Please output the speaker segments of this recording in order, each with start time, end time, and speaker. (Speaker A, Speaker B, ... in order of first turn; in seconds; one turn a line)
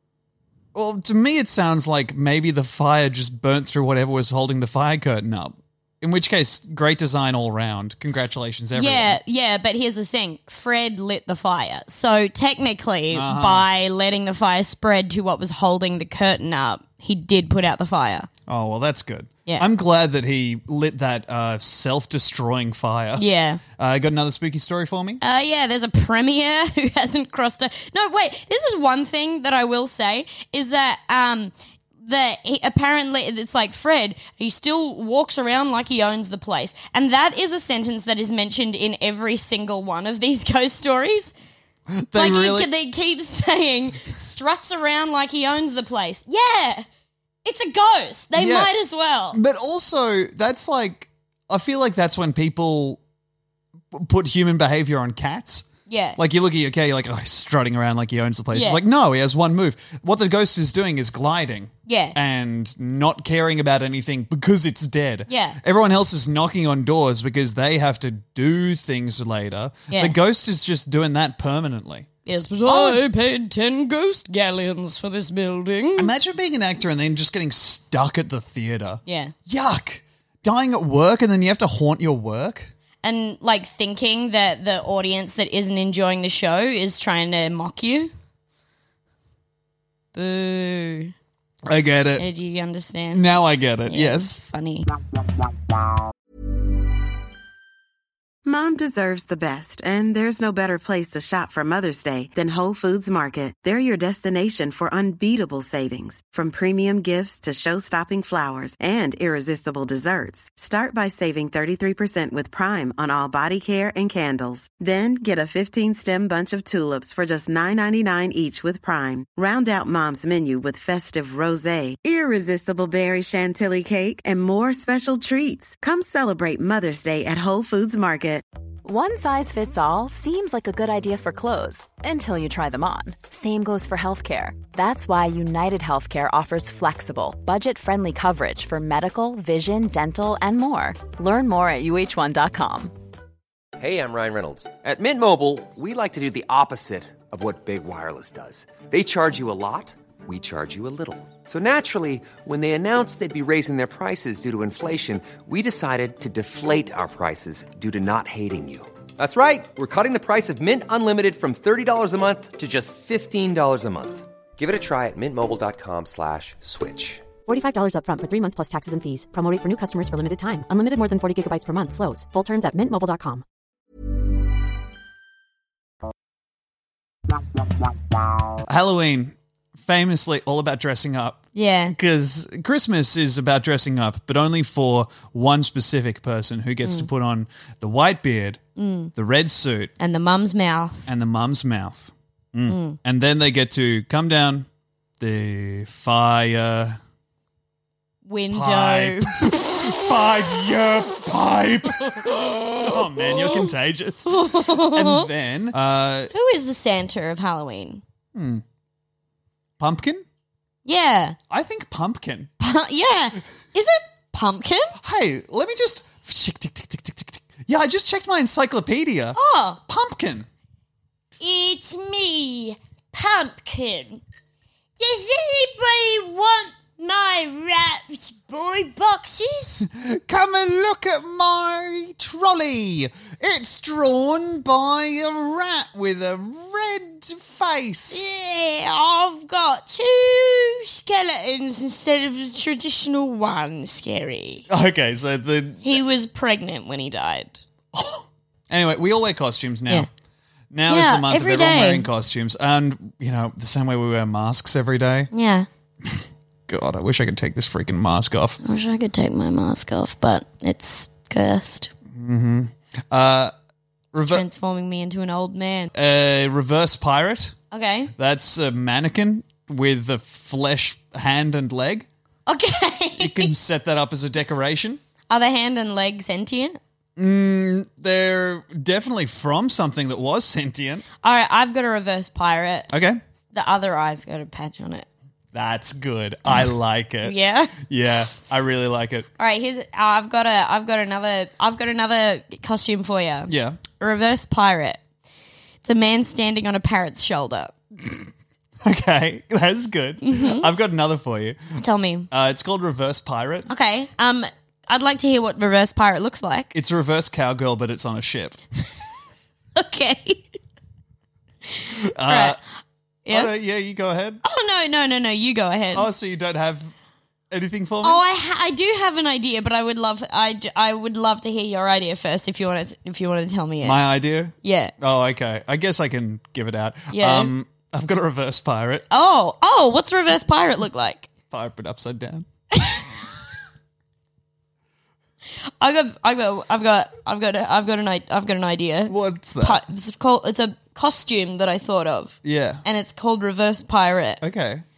Speaker A: 0.7-9.2
Speaker B: 8.7-18.3
Speaker A: 13.1-13.7
Speaker A: 18.5-25.2
Speaker B: 23.1-23.6
Speaker B: 25.2-41.3
Speaker A: 41.9-42.7
Speaker B: 42.1-46.8
Speaker B: 47.4-49.4
Speaker A: 48.3-48.7
Speaker A: 49.3-53.0
Speaker A: 53.9-72.1
Speaker B: 55.9-56.2
Speaker B: 58.5-58.8
Speaker B: 61.9-62.1
Speaker B: 65.3-65.6
Speaker B: 69.9-70.1
Speaker B: 72.2-76.1
Speaker A: 72.6-73.0
Speaker A: 76.0-82.7
Speaker B: 79.0-79.3
Speaker B: 83.0-88.1
Speaker B: 90.1-91.1
Speaker A: 91.7-92.2
Speaker B: 92.2-93.2
Speaker A: 93.1-94.4
Speaker B: 93.8-94.9
Speaker C: 98.4-128.4
Speaker D: 128.8-142.9
Speaker E: 143.8-167.3
Speaker F: 167.4-173.4
Speaker A: 178.6-188.6
Speaker B: 181.5-181.9
Speaker B: 188.8-189.1
Speaker A: 189.2-189.9
Speaker B: 190.0-191.1
Speaker A: 191.1-194.7
Speaker B: 192.7-193.0
Speaker A: 195.2-197.0
Speaker B: 198.2-200.0
Speaker A: 198.5-206.3
Speaker B: 202.0-203.6
Speaker B: 204.2-205.3
Speaker B: 206.3-208.0
Speaker A: 208.3-208.6
Speaker A: 209.8-210.2
Speaker B: 210.8-211.4
Speaker A: 211.5-212.5
Speaker B: 212.6-214.9
Speaker A: 215.0-220.5
Speaker B: 219.3-219.8
Speaker B: 221.4-224.2
Speaker B: 225.0-229.8
Speaker A: 229.8-238.3
Speaker B: 238.1-244.6
Speaker A: 244.7-246.0
Speaker B: 245.8-247.6
Speaker A: 247.9-250.1
Speaker A: 250.7-255.3
Speaker B: 250.9-252.1
Speaker B: 255.3-255.7
Speaker A: 256.0-258.6
Speaker B: 258.6-261.9
Speaker A: 262.1-263.5
Speaker A: 264.1-264.4
Speaker B: 264.1-265.9
Speaker A: 265.9-267.6
Speaker B: 267.7-268.1
Speaker A: 268.1-272.1
Speaker B: 272.5-273.5
Speaker A: 273.2-275.0
Speaker B: 275.3-276.8
Speaker A: 277.2-281.0
Speaker B: 281.2-282.9
Speaker A: 282.9-283.2
Speaker B: 283.5-285.1
Speaker A: 285.5-289.3
Speaker B: 287.2-287.8
Speaker B: 289.4-295.0
Speaker A: 293.5-293.8
Speaker B: 295.8-297.7
Speaker A: 298.8-301.8
Speaker B: 300.2-300.7
Speaker B: 301.8-302.3
Speaker A: 302.3-303.7
Speaker B: 303.7-306.7
Speaker A: 306.7-308.6
Speaker B: 309.7-310.6
Speaker A: 311.9-312.6
Speaker B: 312.2-312.6
Speaker B: 313.2-313.5
Speaker A: 313.3-314.4
Speaker B: 314.4-316.1
Speaker A: 315.9-316.9
Speaker A: 317.5-318.2
Speaker B: 318.0-324.0
Speaker A: 323.8-329.0
Speaker B: 324.6-324.9
Speaker B: 327.1-327.5
Speaker B: 329.1-331.3
Speaker A: 331.5-332.4
Speaker B: 332.7-333.2
Speaker B: 335.8-344.4
Speaker A: 339.1-339.8
Speaker A: 342.4-342.8
Speaker A: 344.4-344.8